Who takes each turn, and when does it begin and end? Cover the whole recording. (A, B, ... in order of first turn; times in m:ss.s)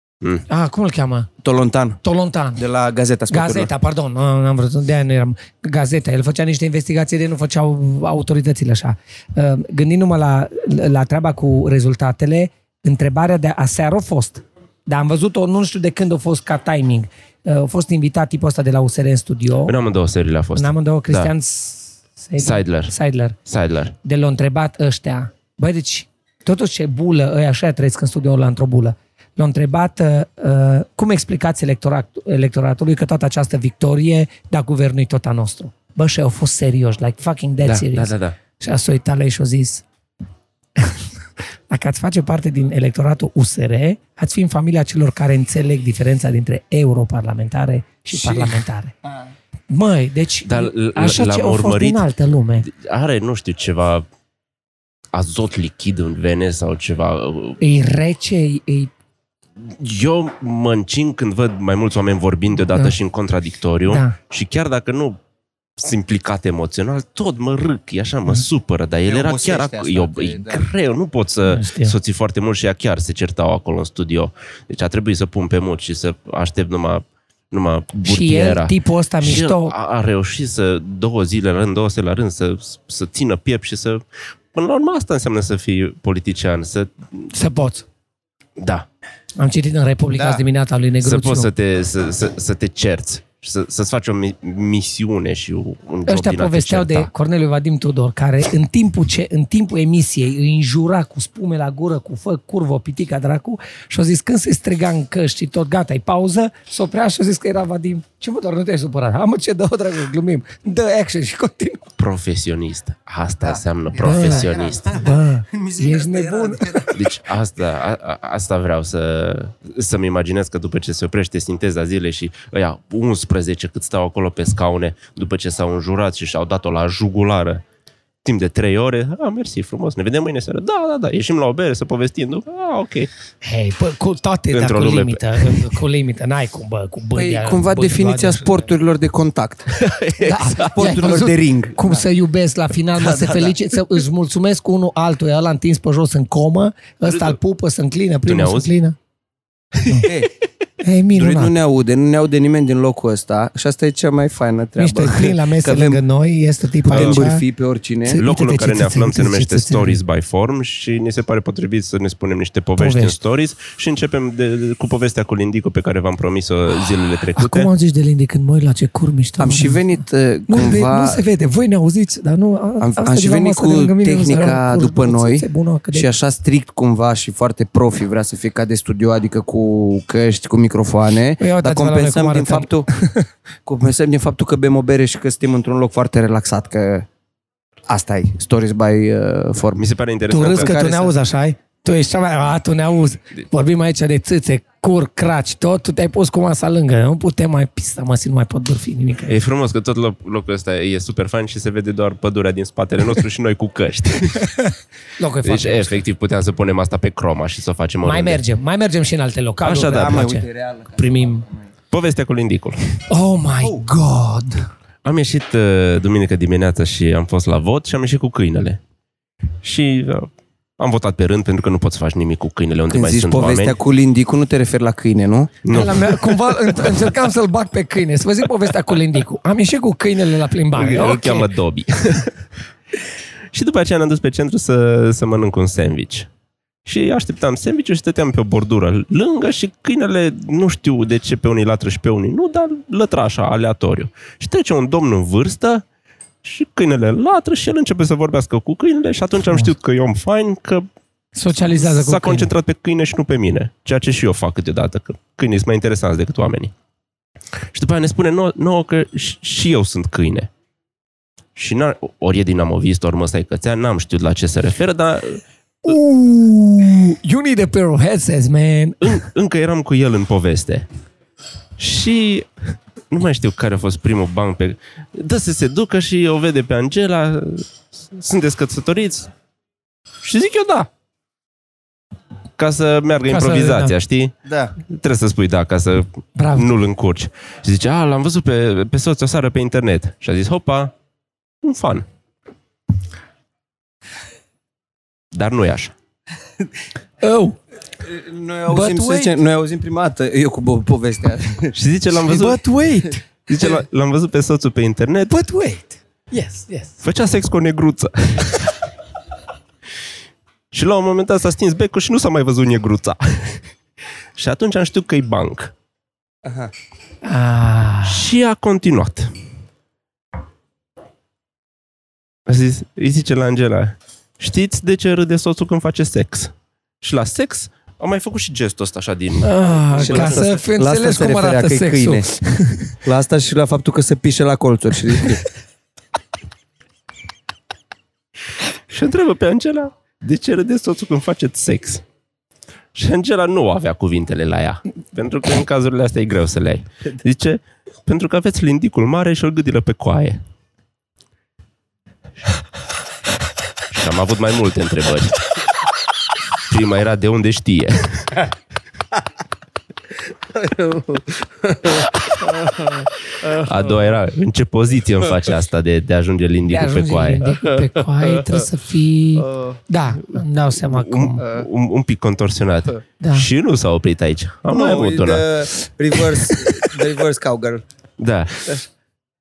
0:00.5-0:01.3 A
0:01.4-0:02.0 B
0:02.0-0:02.6 A
0:02.6-0:03.7 B
0:03.3-0:19.8 A
0:19.6-0:21.3 C
0:20.6-0:23.4 A
0:22.4-0:22.9 C
0:23.4-0:23.9 C
0:24.0-0:39.8 A
0:37.6-0:38.4 C
0:40.8-0:41.0 A
0:41.7-0:48.9 A
0:49.7-0:52.7 A
0:50.4-0:52.0 C
0:52.6-0:54.0 C
0:55.1-0:57.6 C
0:57.6-0:58.9 A
0:59.6-1:05.2 C
1:03.9-1:04.2 A
1:05.8-1:24.0 C
1:09.0-1:10.6 B
1:11.4-1:11.9 A
1:18.0-1:19.8 A
1:24.5-1:26.9 C
1:27.3-1:27.8 A
1:28.6-1:28.8 C
1:29.4-1:31.5 A
1:30.1-1:30.4 B
1:31.0-1:37.1 C
1:36.1-1:51.8 A
1:52.0-1:55.1 C
1:53.4-1:57.1 B
1:54.0-1:56.9 A
1:56.9-2:07.6 C
2:08.2-2:13.1 C
2:13.4-2:18.5 A
2:14.5-2:15.7 C
2:17.2-2:19.8 B
2:19.7-2:21.0 C
2:20.2-2:29.0 A
2:20.5-2:22.0 B
2:23.0-2:23.5 B
2:27.1-2:27.4 C
2:28.2-2:28.7 C
2:29.8-2:30.1 A
2:30.0-2:30.3 B
2:30.8-2:31.5 A
2:31.1-2:36.0 B
2:34.8-2:37.4 A
2:36.9-2:38.2 B
2:36.9-2:37.2 C
2:38.0-2:40.0 A
2:38.2-2:47.7 C
2:42.8-2:43.2 A
2:47.4-2:49.8 A
2:49.4-2:51.2 B
2:50.5-2:56.1 A
2:52.8-3:02.9 B
3:01.4-3:03.2 A
3:03.6-3:07.1 B
3:07.9-3:09.8 B
3:09.8-3:10.7 C
3:10.3-3:19.4 A
3:10.4-3:11.1 B
3:19.3-3:24.5 C
3:24.4-3:26.0 A
3:25.4-3:28.4 C
3:28.0-3:30.4 A
3:29.6-3:30.3 C
3:29.7-3:31.3 B
3:31.0-3:31.4 A
3:31.9-3:33.0 C
3:33.1-3:34.6 A
3:33.6-3:33.9 B
3:35.0-3:38.8 C
3:39.6-3:43.8 C
3:42.9-3:45.6 B
3:45.6-3:46.4 C
3:45.7-3:51.5 A
3:50.8-3:52.3 C
3:53.5-3:56.3 C
3:56.8-4:05.8 C
4:06.4-4:10.9 C
4:11.3-4:12.5 A
4:11.5-4:16.7 C
4:17.7-4:20.5 C
4:21.6-4:25.4 C
4:25.8-4:29.2 A
4:29.0-4:30.8 C
4:31.8-4:32.5 C
4:33.1-4:39.3 C
4:40.2-4:40.9 C
4:42.6-4:50.9 C
4:43.3-4:43.9 A
4:44.4-4:44.8 B
4:46.4-4:46.7 A
4:51.6-4:52.0 C
4:55.3-4:55.9 C
4:57.2-4:57.6 A
4:58.0-5:01.7 B
4:58.7-4:59.4 A
5:01.7-5:02.6 C
5:02.2-5:03.2 A
5:03.5-5:05.4 C
5:05.3-5:07.0 A
5:07.0-5:08.8 C
5:10.7-5:13.6 C
5:14.4-5:15.7 C
5:16.4-5:16.7 B
5:17.2-5:18.2 A
5:18.0-5:19.3 C
5:22.5-5:30.4 C
5:29.4-5:33.0 A
5:30.0-5:32.3 B
5:33.0-5:35.4 B
5:38.9-5:42.0 C
5:42.9-5:50.4 C
5:53.9-5:55.4 C
5:56.7-5:58.4 C
6:00.5-6:03.7 B
6:03.5-6:07.5 C
6:06.7-6:11.4 A
6:09.4-6:09.8 B
6:10.8-6:15.4 C
6:13.2-6:13.5 A
6:14.7-6:17.8 B
6:18.2-6:18.8 C